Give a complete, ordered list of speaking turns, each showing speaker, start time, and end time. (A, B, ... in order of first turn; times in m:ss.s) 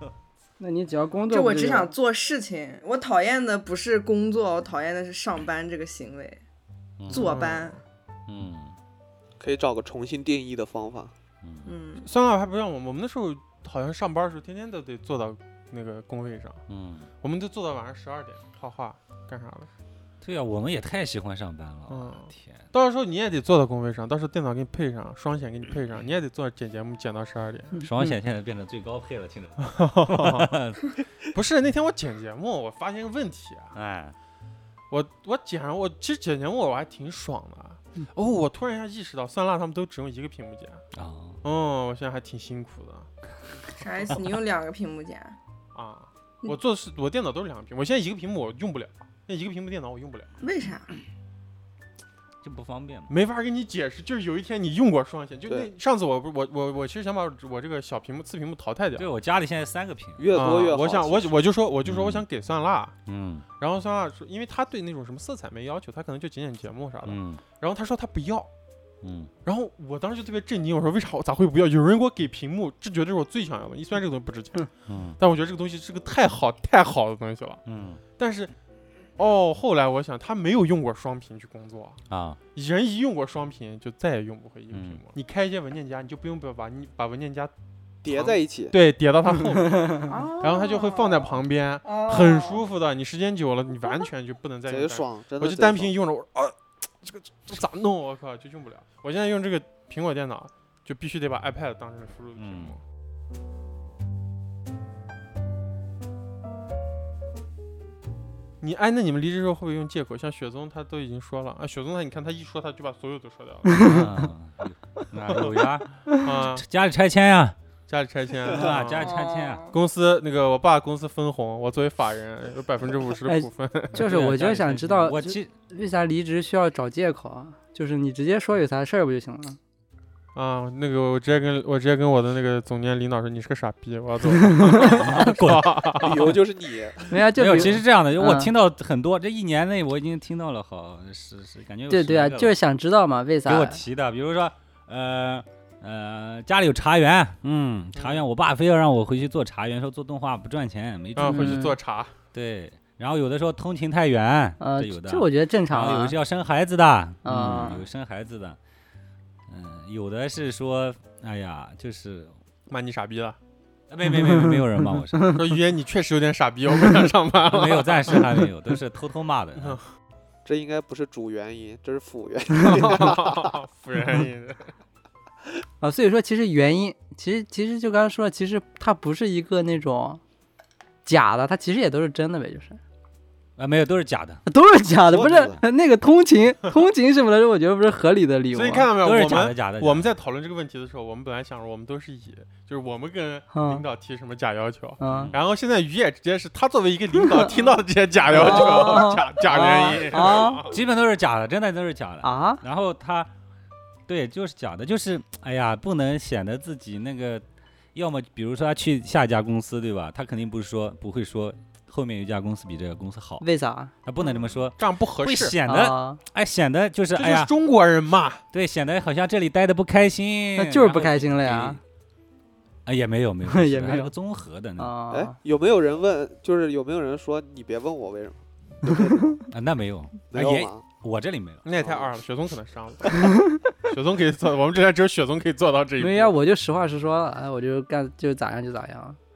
0:00.6-0:01.9 A
0:01.3-0:06.4 B
0:07.0-0:07.4 C
0:07.1-0:07.8 B
0:07.1-0:07.8 D
0:08.3-0:08.7 C
0:09.4-0:11.1 E
0:11.4-0:11.7 C
0:11.6-0:12.1 B
0:12.0-0:16.6 D
0:16.7-0:17.1 C
0:17.2-0:19.7 D
0:20.2-0:22.6 C
0:21.9-0:28.1 D
0:27.8-0:30.9 C
0:29.6-0:30.5 D
0:31.3-0:33.7 D
0:33.7-0:34.1 C
0:34.9-0:40.8 D
0:40.9-0:41.4 C
0:41.4-0:43.1 D
0:43.7-0:45.4 B
0:45.7-0:50.3 D
0:50.4-0:51.0 B
0:52.4-0:53.1 C
0:53.1-0:59.1 D
0:59.0-1:00.3 C
1:00.2-1:01.3 E
1:00.3-1:02.9 D
1:01.9-1:02.2 C
1:03.1-1:03.4 C
1:03.6-1:08.5 D
1:07.0-1:07.4 C
1:09.0-1:09.3 C
1:09.4-1:17.6 D
1:14.9-1:15.2 C
1:17.6-1:18.0 C
1:18.2-1:18.5 D
1:19.2-1:22.0 D
1:22.1-1:22.4 C
1:22.6-1:27.5 D
1:24.7-1:25.0 C
1:28.0-1:28.7 E
1:28.0-1:42.8 D
1:30.1-1:32.6 B
1:34.7-1:35.9 E
1:42.4-1:42.7 C
1:48.6-1:54.0 D
1:53.7-1:54.0 A
1:53.8-1:57.6 C
1:55.3-1:56.6 D
1:57.9-1:59.1 D
1:58.4-1:59.7 C
1:59.0-1:59.8 B
1:59.7-2:04.1 D
2:03.3-2:09.6 A
2:03.9-2:05.5 C
2:10.3-2:16.3 D
2:14.4-2:15.0 A
2:14.9-2:16.3 C
2:16.0-2:17.1 E
2:17.1-2:18.5 A
2:17.4-2:22.6 C
2:21.9-2:23.8 A
2:23.4-2:31.7 C
2:27.9-2:28.2 D
2:31.2-2:32.1 D
2:31.2-2:31.7 A
2:32.3-2:38.6 C
2:34.6-2:36.2 A
2:37.2-2:37.8 A
2:39.5-2:42.3 C
2:42.7-2:43.4 D
2:43.9-2:45.4 C
2:44.1-2:44.6 A
2:45.3-2:48.4 D
2:47.5-2:49.8 C
2:49.6-2:49.9 D
2:50.4-2:53.5 E
2:52.6-2:54.7 D
2:55.8-3:00.2 A
3:01.0-3:02.8 A
3:03.6-3:04.4 C
3:04.4-3:08.9 A
3:05.1-3:05.6 E
3:08.5-3:20.8 D
3:09.0-3:10.1 C
3:13.5-3:13.8 A
3:15.0-3:15.3 A
3:15.0-3:15.4 C
3:17.3-3:17.6 A
3:18.3-3:20.7 A
3:18.3-3:18.9 C
3:20.1-3:23.3 C
3:22.2-3:22.6 A
3:24.1-3:27.4 C
3:27.9-3:33.4 C
3:33.4-3:33.9 A
3:34.0-3:37.5 C
3:34.8-3:35.6 D
3:35.6-3:36.2 A
3:37.1-3:38.4 D
3:38.5-3:41.8 C
3:40.6-3:41.8 A
3:42.9-3:44.9 C
3:43.5-3:44.1 A
3:44.8-3:45.4 A
3:45.1-3:49.4 E
3:49.5-3:51.6 C
3:50.3-3:50.8 E
3:51.6-3:56.3 D
3:51.8-3:52.1 E
3:56.0-3:59.2 A